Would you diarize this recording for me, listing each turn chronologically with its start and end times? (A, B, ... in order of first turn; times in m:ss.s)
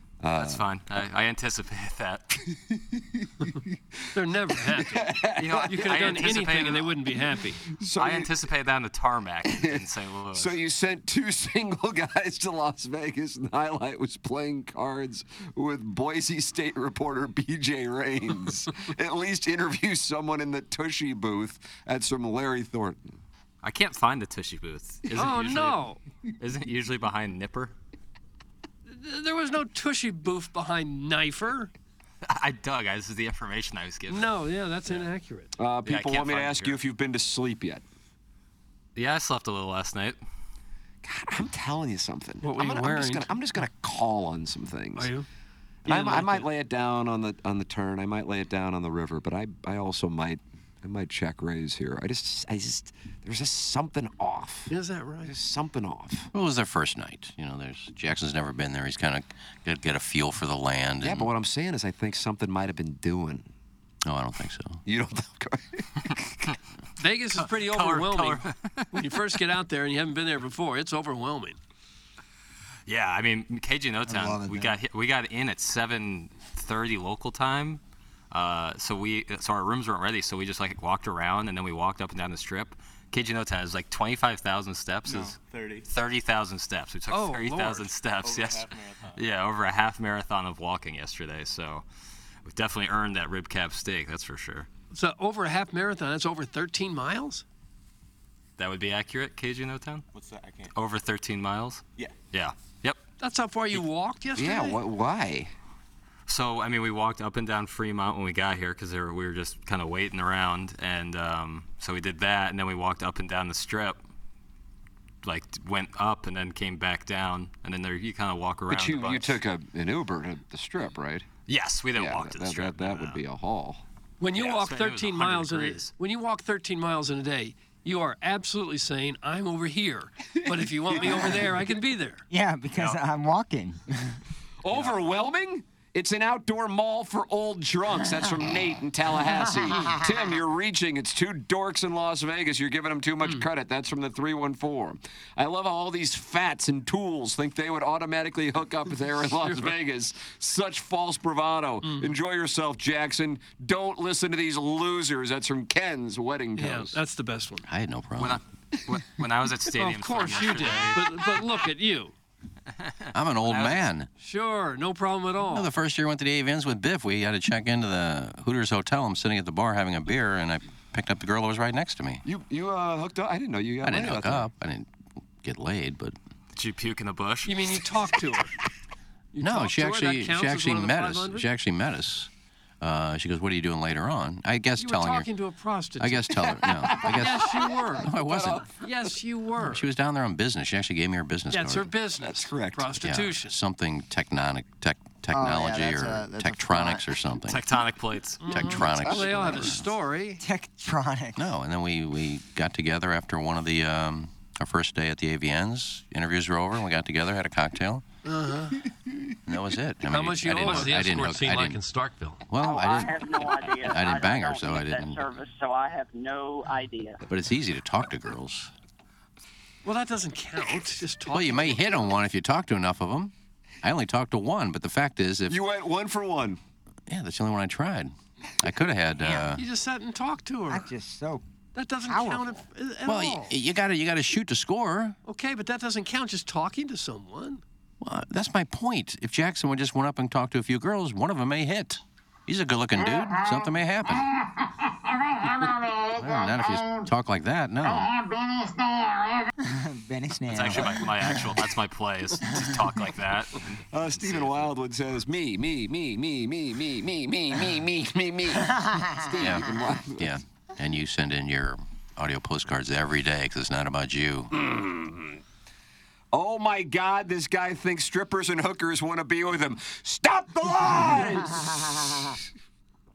0:00.2-0:00.6 A
0:00.4-0:02.4 B
0:02.6-0:06.3 A
0:04.1-0:07.6 C
0:05.4-0:07.0 B
0:07.6-0:08.3 A
0:08.0-0:10.5 B
0:09.5-0:23.2 A
0:23.6-0:25.9 B
0:25.1-0:26.0 C
0:26.4-0:27.7 B
0:28.9-0:31.7 C
0:32.2-0:34.3 B
0:34.1-0:35.5 C
0:35.6-0:37.8 A
0:35.8-0:36.8 B
0:39.0-0:40.2 B
0:41.0-0:45.1 A
0:42.4-0:43.3 C
0:45.0-0:45.3 C
0:45.9-0:46.5 C
0:45.9-0:56.3 A
0:54.7-0:55.3 C
0:56.3-1:01.3 D
1:01.0-1:03.5 A
1:04.0-1:04.8 D
1:04.9-1:06.3 A
1:07.0-1:11.6 C
1:07.4-1:09.1 B
1:12.9-1:17.8 B
1:14.1-1:14.8 E
1:18.3-1:31.8 B
1:25.1-1:25.9 F
1:27.1-1:27.9 C
1:28.2-1:29.2 F
1:32.5-1:34.7 B
1:34.9-1:37.4 C
1:38.6-1:40.0 B
1:40.1-1:40.7 F
1:40.7-1:43.0 B
1:43.2-1:44.8 C
1:44.4-1:45.5 A
1:46.3-1:54.0 B
1:55.2-1:59.4 B
1:58.7-2:01.3 A
2:01.5-2:03.2 B
2:02.0-2:03.8 A
2:04.2-2:12.2 C
2:04.3-2:05.9 B
2:10.4-2:11.6 A
2:12.3-2:14.2 E
2:12.7-2:13.0 B
2:14.6-2:37.0 A
2:29.4-2:29.7 C
2:31.8-2:32.1 C
2:36.6-2:37.6 C
2:37.7-2:38.4 D
2:38.2-2:41.2 B
2:39.7-2:42.1 C
2:42.8-2:43.9 B
2:43.1-2:44.1 D
2:44.2-2:45.7 C
2:45.4-2:52.2 D
2:52.2-2:54.5 A
2:53.8-2:54.9 D
2:55.4-2:56.2 D
2:56.6-2:57.7 B
2:57.5-2:58.5 C
2:59.3-3:01.5 C
2:59.4-3:02.3 D
3:02.8-3:05.3 D
3:04.8-3:09.9 C
3:06.0-3:08.7 D
3:06.5-3:08.7 A
3:09.6-3:11.9 D
3:11.5-3:13.6 C
3:12.2-3:13.0 A
3:13.0-3:17.6 D
3:15.3-3:17.2 E
3:17.5-3:18.5 B
3:18.4-3:20.4 C
3:18.5-3:19.9 D
3:20.4-3:21.4 E
3:21.4-3:28.0 D
3:28.2-3:28.8 C
3:29.5-3:31.8 D
3:30.1-3:32.4 C
3:32.5-3:35.2 D
3:32.6-3:37.2 G
3:37.3-3:38.7 D
3:39.8-3:42.2 C
3:41.3-3:43.3 D
3:43.8-3:45.6 D
3:45.5-3:46.6 A
3:47.1-3:49.6 D
3:49.6-3:50.9 C
3:50.7-3:51.4 E
3:51.8-3:53.6 C
3:52.1-3:52.6 E
3:53.1-3:55.2 D
3:55.2-3:57.6 C
3:58.0-4:04.3 D
4:05.9-4:08.2 D
4:09.6-4:11.6 E
4:10.5-4:14.7 B
4:13.9-4:20.3 A
4:18.6-4:19.6 E
4:19.4-4:24.5 D
4:24.5-4:25.4 A
4:26.3-4:32.4 A